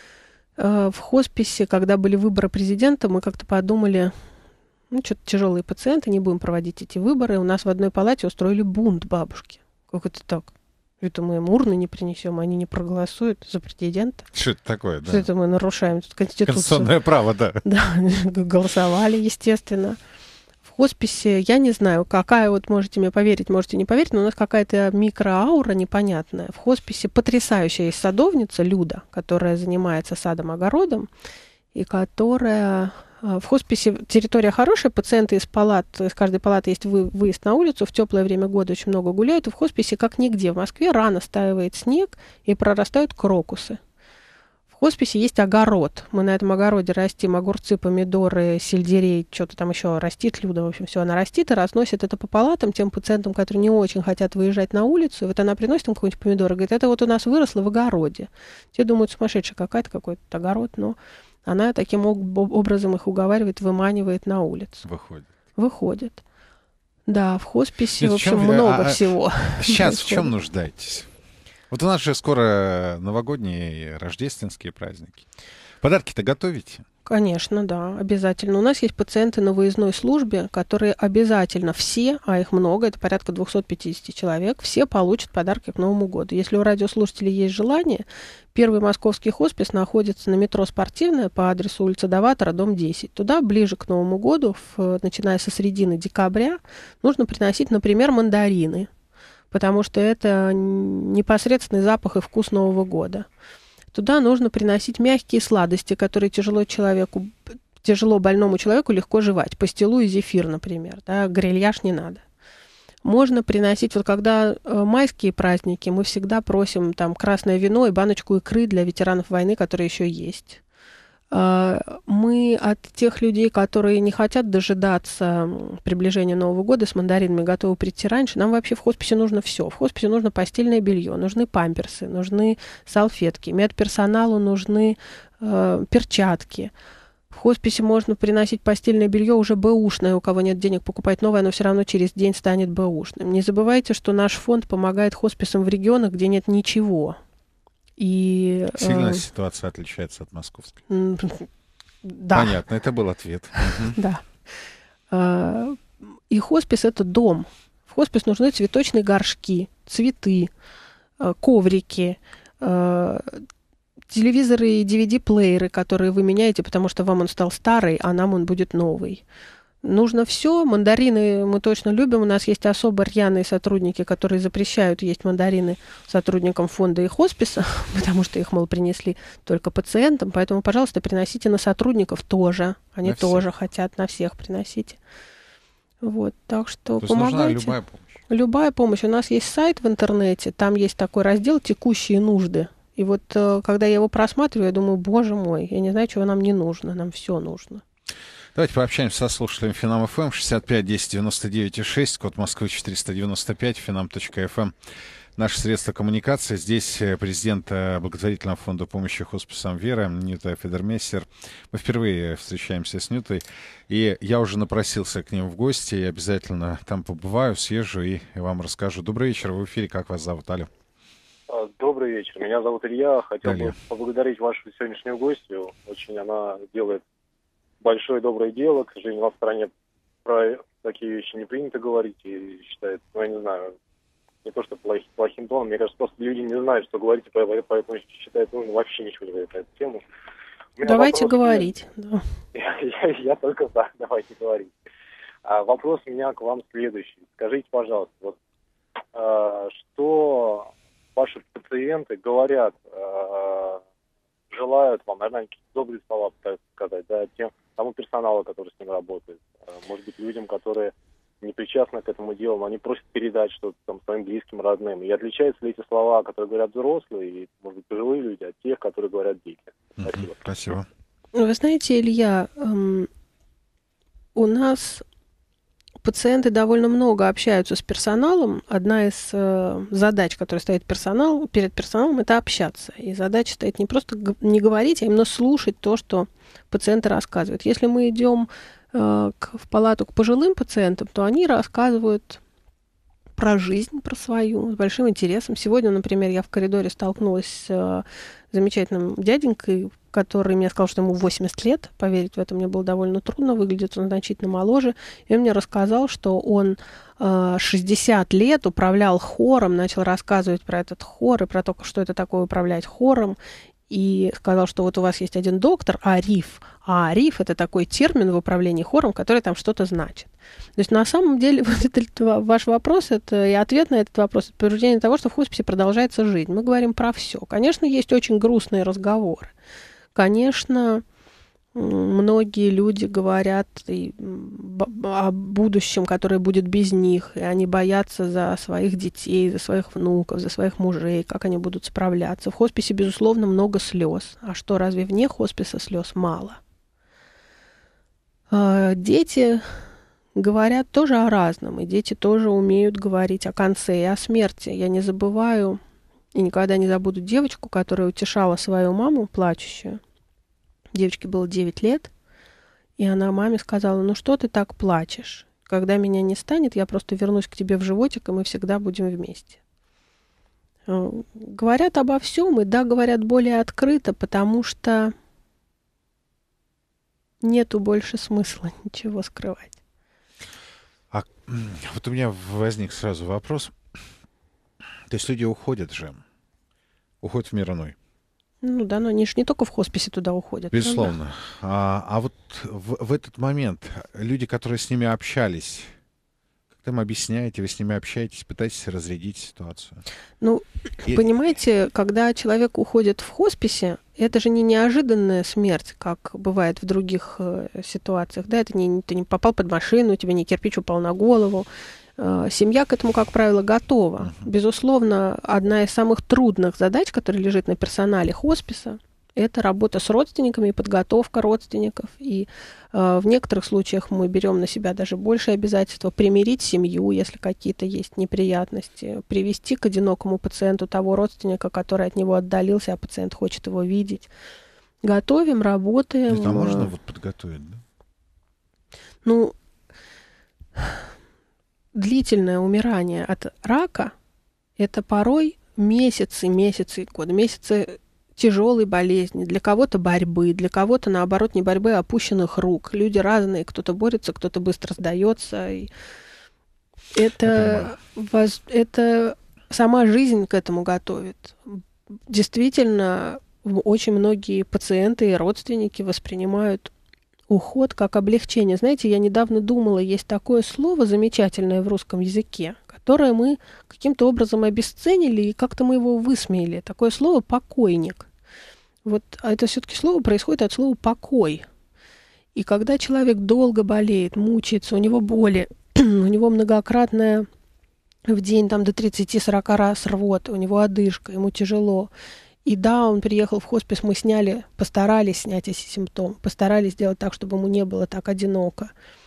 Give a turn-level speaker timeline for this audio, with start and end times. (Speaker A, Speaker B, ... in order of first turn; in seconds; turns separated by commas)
Speaker A: 0.6-4.1, Speaker A: 4.9-14.3, Speaker B: 14.3-15.3, Speaker A: 15.1-16.9, Speaker B: 16.4-17.6, Speaker A: 17.6-20.0, Speaker A: 20.6-31.1, Speaker A: 31.7-43.8, Speaker A: 44.7-64.8, Speaker B: 64.8-65.3, Speaker A: 65.5-66.2, Speaker A: 67.1-70.3, Speaker B: 68.0-71.1, Speaker B: 71.7-75.3, Speaker B: 75.8-76.8, Speaker A: 77.0-98.9, Speaker A: 99.5-103.3, Speaker A: 103.9-112.2, Speaker A: 113.0-120.6, Speaker A: 121.3-136.7, Speaker A: 137.3-147.2, Speaker A: 148.0-149.2, Speaker B: 148.7-150.8, Speaker A: 150.9-151.5, Speaker A: 152.0-152.6, Speaker B: 152.3-154.0, Speaker A: 153.6-154.2, Speaker A: 155.1-160.5, Speaker A: 161.2-163.4, Speaker A: 164.1-169.2, Speaker A: 169.8-185.0, Speaker B: 183.0-183.4, Speaker A: 186.0-187.8, Speaker B: 187.0-188.2, Speaker A: 188.3-197.8, Speaker B: 198.5-204.7, Speaker B: 205.4-220.7, Speaker C: 221.5-227.0, Speaker B: 223.4-223.7, Speaker C: 227.8-229.7, Speaker C: 230.2-233.7, Speaker C: 234.4-240.0, Speaker C: 240.8-241.7, Speaker A: 240.8-242.2, Speaker C: 242.5-244.7, Speaker C: 245.4-248.3, Speaker C: 249.1-253.8, Speaker C: 254.5-270.3, Speaker B: 270.0-270.9, Speaker A: 271.3-273.1, Speaker A: 274.3-275.0, Speaker A: 276.0-292.4, Speaker A: 293.4-313.4, Speaker A: 313.9-329.5, Speaker A: 330.1-331.0, Speaker A: 331.7-346.6, Speaker A: 348.5-349.6, Speaker A: 350.3-355.8, Speaker A: 356.3-360.0, Speaker A: 360.9-362.1, Speaker A: 363.0-369.6, Speaker A: 370.9-375.1, Speaker A: 377.4-379.7, Speaker B: 381.1-383.8, Speaker B: 385.1-386.2, Speaker B: 387.2-387.9, Speaker A: 388.6-391.1, Speaker B: 390.7-395.9, Speaker B: 396.8-400.0, Speaker A: 400.4-434.3, Speaker A: 435.0-436.9, Speaker B: 436.3-437.8, Speaker A: 439.2-439.5, Speaker A: 440.8-441.0, Speaker A: 441.9-444.1, Speaker A: 444.8-455.9, Speaker A: 457.1-466.9, Speaker B: 457.5-457.9, Speaker A: 467.5-478.3, Speaker A: 479.0-481.6, Speaker A: 482.5-487.5, Speaker A: 488.3-492.1, Speaker A: 492.6-498.9